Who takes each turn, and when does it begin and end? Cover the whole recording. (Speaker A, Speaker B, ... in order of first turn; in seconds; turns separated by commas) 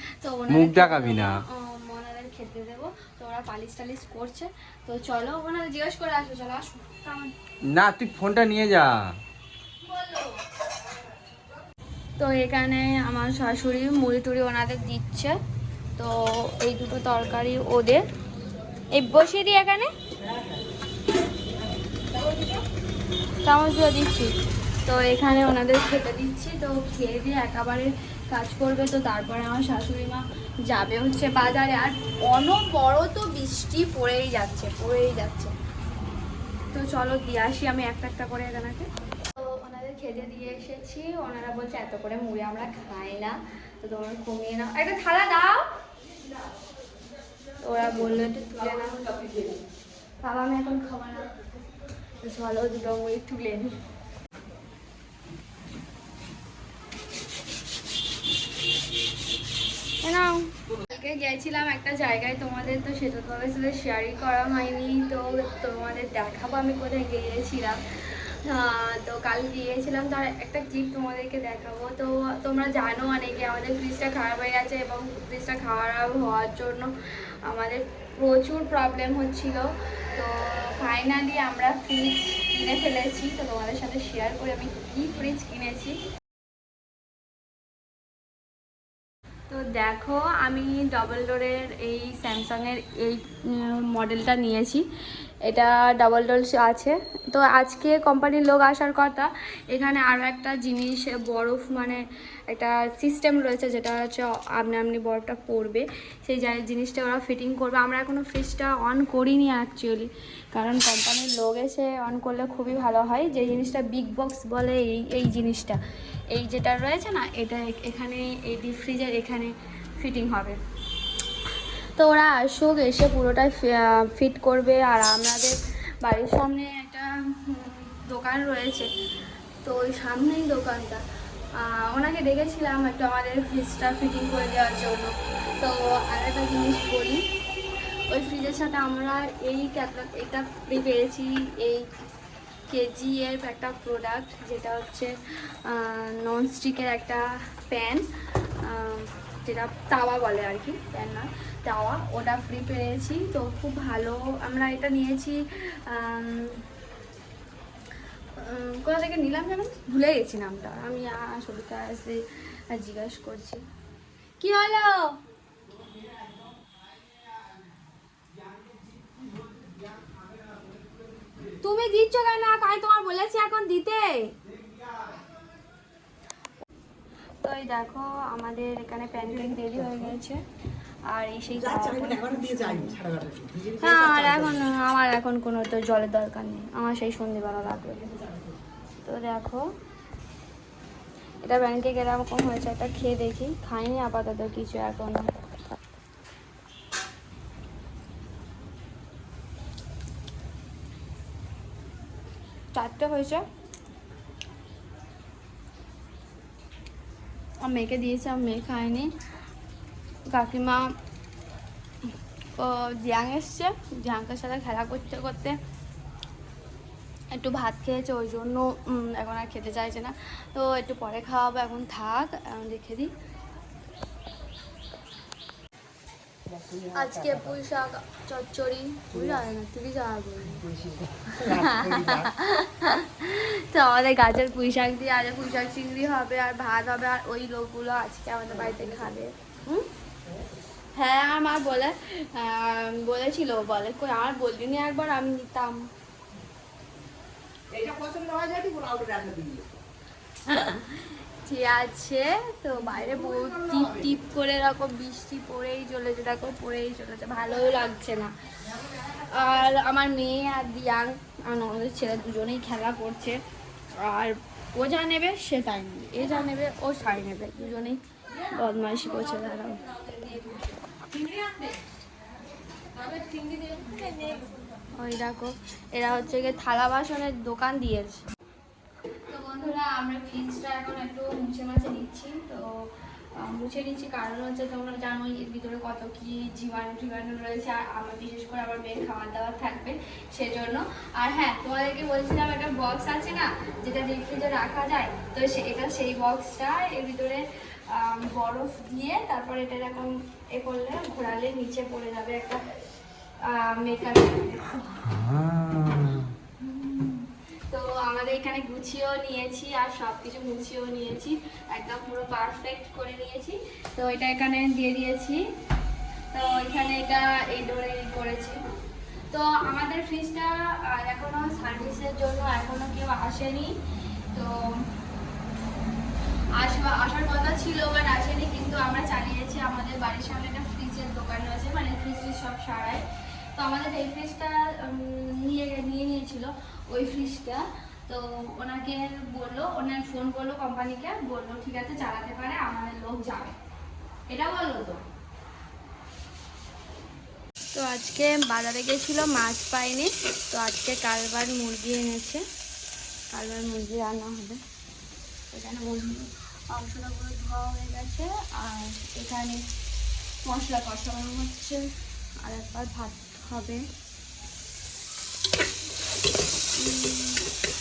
Speaker A: 0.2-7.3, Speaker B: 0.5-1.4, Speaker B: 7.7-9.2, Speaker A: 9.8-10.4, Speaker A: 12.2-15.4, Speaker A: 16.0-18.0, Speaker A: 18.9-19.9, Speaker C: 20.2-20.6, Speaker C: 22.1-22.6, Speaker A: 23.4-24.3, Speaker A: 24.9-35.5, Speaker A: 36.7-45.7, Speaker A: 47.6-49.5, Speaker A: 50.2-51.3, Speaker A: 52.2-53.8, Speaker A: 60.0-76.9, Speaker A: 77.5-86.0, Speaker A: 89.5-94.8, Speaker A: 95.5-115.8, Speaker A: 116.3-120.6, Speaker A: 122.0-128.9, Speaker A: 129.6-131.0, Speaker A: 131.6-137.3, Speaker A: 138.1-141.9, Speaker A: 142.7-145.1, Speaker A: 145.7-148.1, Speaker A: 148.6-156.6, Speaker A: 158.4-162.2, Speaker A: 162.7-163.6, Speaker A: 164.4-165.2, Speaker A: 171.6-174.3, Speaker A: 177.4-180.4, Speaker A: 181.1-183.0, Speaker C: 181.6-184.7, Speaker A: 183.8-188.0, Speaker A: 189.0-189.7, Speaker A: 191.4-195.8, Speaker A: 202.7-203.4, Speaker A: 207.6-209.1, Speaker A: 210.3-210.9, Speaker A: 212.6-215.6, Speaker A: 217.3-223.1, Speaker C: 226.5-227.6, Speaker A: 227.0-230.6, Speaker C: 230.6-232.3, Speaker A: 231.4-239.9, Speaker C: 238.6-238.9, Speaker A: 240.9-245.8, Speaker C: 247.7-249.7, Speaker A: 250.5-258.3, Speaker C: 252.9-254.1, Speaker A: 259.0-263.4, Speaker A: 264.0-270.6, Speaker A: 273.4-274.3, Speaker A: 274.9-278.2, Speaker A: 279.3-282.7, Speaker A: 283.4-302.6, Speaker A: 303.4-305.1, Speaker B: 305.1-306.3, Speaker A: 306.6-315.4, Speaker A: 316.3-318.6, Speaker A: 319.3-323.8, Speaker A: 324.3-324.8, Speaker A: 326.5-343.6, Speaker A: 344.3-345.0, Speaker A: 347.7-352.4, Speaker A: 353.3-354.6, Speaker A: 355.5-359.6, Speaker A: 360.4-361.9, Speaker A: 362.4-363.9, Speaker A: 366.8-367.4